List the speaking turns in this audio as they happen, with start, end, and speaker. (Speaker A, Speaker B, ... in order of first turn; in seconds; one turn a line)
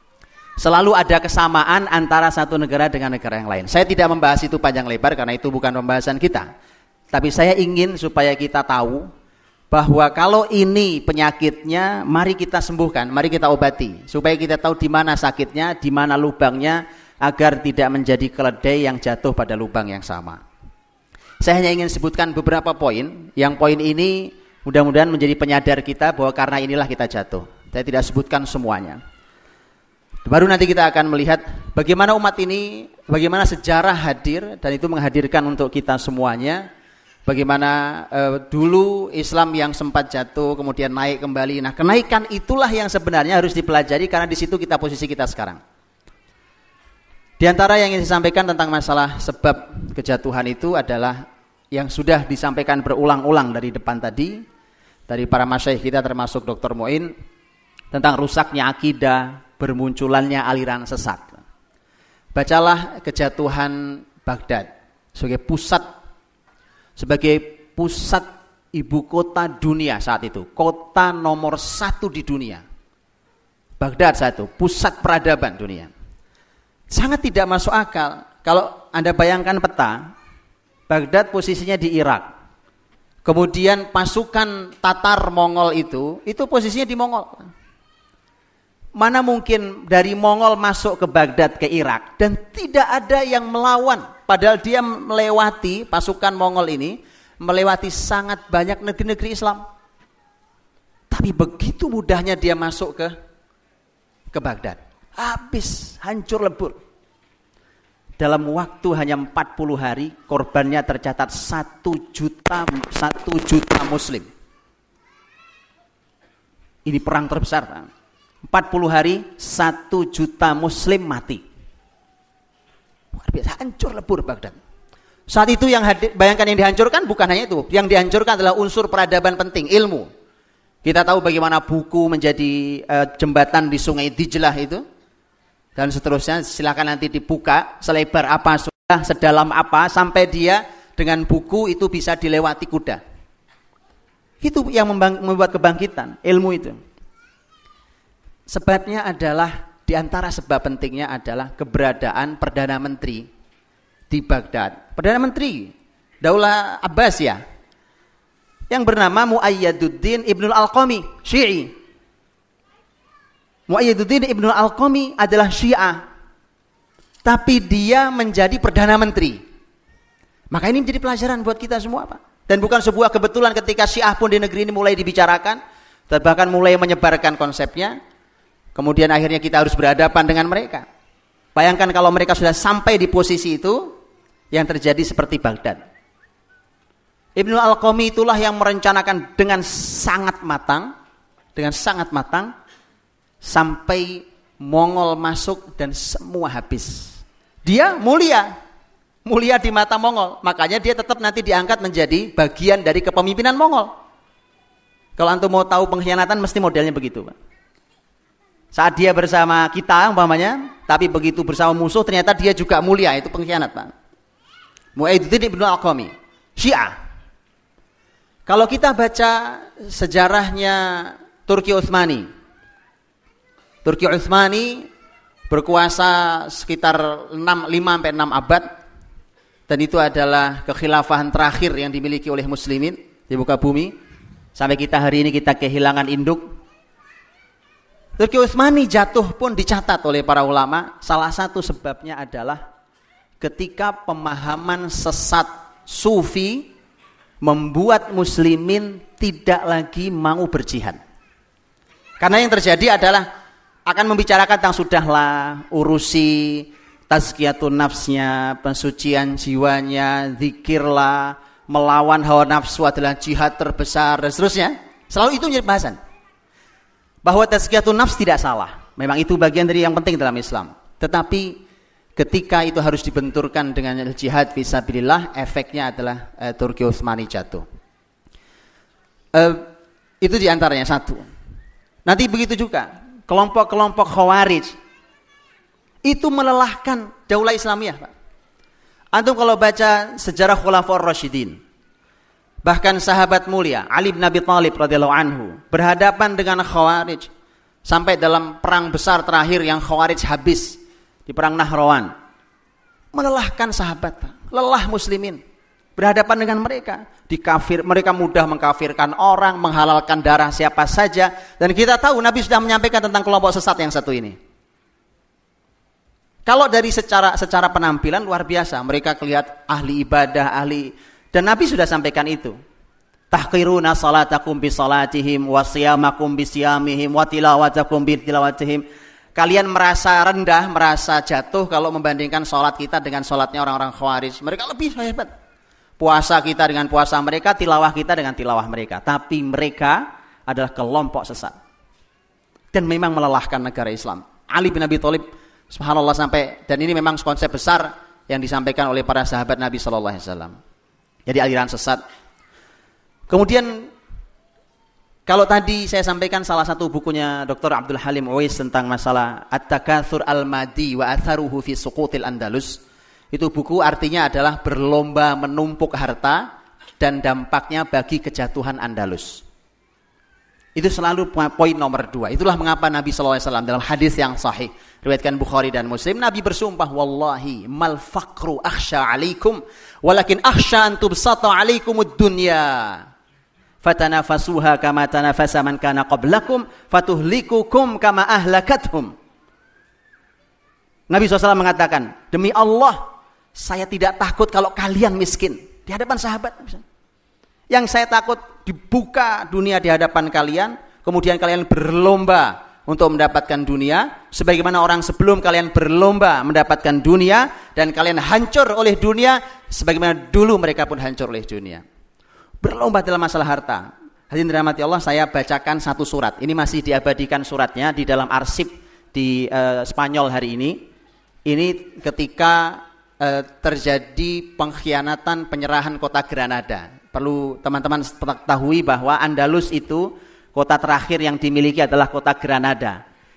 Speaker A: 0.6-6.5
Speaker A: 7.1-9.1
Speaker A: 9.7-20.4
Speaker A: 21.4-29.0
Speaker A: 30.3-36.7
Speaker A: 37.3-45.6
Speaker A: 47.4-54.4
Speaker A: 55.1-57.1
Speaker A: 57.9-61.4
Speaker A: 62.4-65.9
Speaker A: 67.0-72.6
Speaker A: 73.8-75.9
Speaker A: 76.9-80.1
Speaker A: 80.9-82.3
Speaker A: 83.2-87.5
Speaker A: 89.0-99.7
Speaker A: 101.1-103.1
Speaker A: 104.3-106.8
Speaker A: 108.2-114.3
Speaker A: 116.8-117.9
Speaker A: 118.4-121.4
Speaker A: 123.1-124.6
Speaker A: 125.3-130.1
Speaker A: 130.8-134.8
Speaker A: 135.8-143.0
Speaker A: 144.4-146.8
Speaker A: 148.5-153.3
Speaker A: 154.1-157.4
Speaker A: 158.7-161.7
Speaker A: 163.7-166.0
Speaker A: 167.2-169.4
Speaker A: 170.5-178.0
Speaker A: 178.8-180.9
Speaker A: 181.6-183.9
Speaker A: 184.5-185.8
Speaker A: 187.4-190.9
Speaker A: 191.6-192.5
Speaker A: 193.4-198.5
Speaker A: 199.3-203.9
Speaker A: 205.2-207.3
Speaker A: 208.7-213.9
Speaker A: 215.0-216.9
Speaker A: 218.5-222.3
Speaker A: 223.8-224.9
Speaker A: 225.5-228.6
Speaker A: 229.7-233.9
Speaker A: 234.6-236.4
Speaker A: 238.2-242.6
Speaker A: 243.4-246.7
Speaker A: 247.4-251.0
Speaker A: 252.2-253.3
Speaker A: 253.9-266.0
Speaker A: 267.2-271.6
Speaker A: 272.2-277.7
Speaker A: 279.3-279.7
Speaker A: 280.2-281.3
Speaker A: 282.1-284.8
Speaker A: 286.1-288.1
Speaker A: 289.1-291.6
Speaker A: 292.6-297.3
Speaker A: 297.9-302.1
Speaker A: 303.1-305.4
Speaker A: 306.0-314.4
Speaker A: 316.5-322.6
Speaker A: 323.3-328.9
Speaker A: 329.4-335.3
Speaker A: 336.0-341.5
Speaker A: 342.7-350.6
Speaker A: 351.3-352.0
Speaker A: 353.3-353.9
Speaker A: 355.3-362.8
Speaker A: 363.3-366.4
Speaker A: 367.0-369.4
Speaker A: 370.8-383.1
Speaker A: 383.8-389.1
Speaker A: 391.1-396.8
Speaker A: 397.7-411.8
Speaker A: 412.6-420.8
Speaker A: 421.5-433.0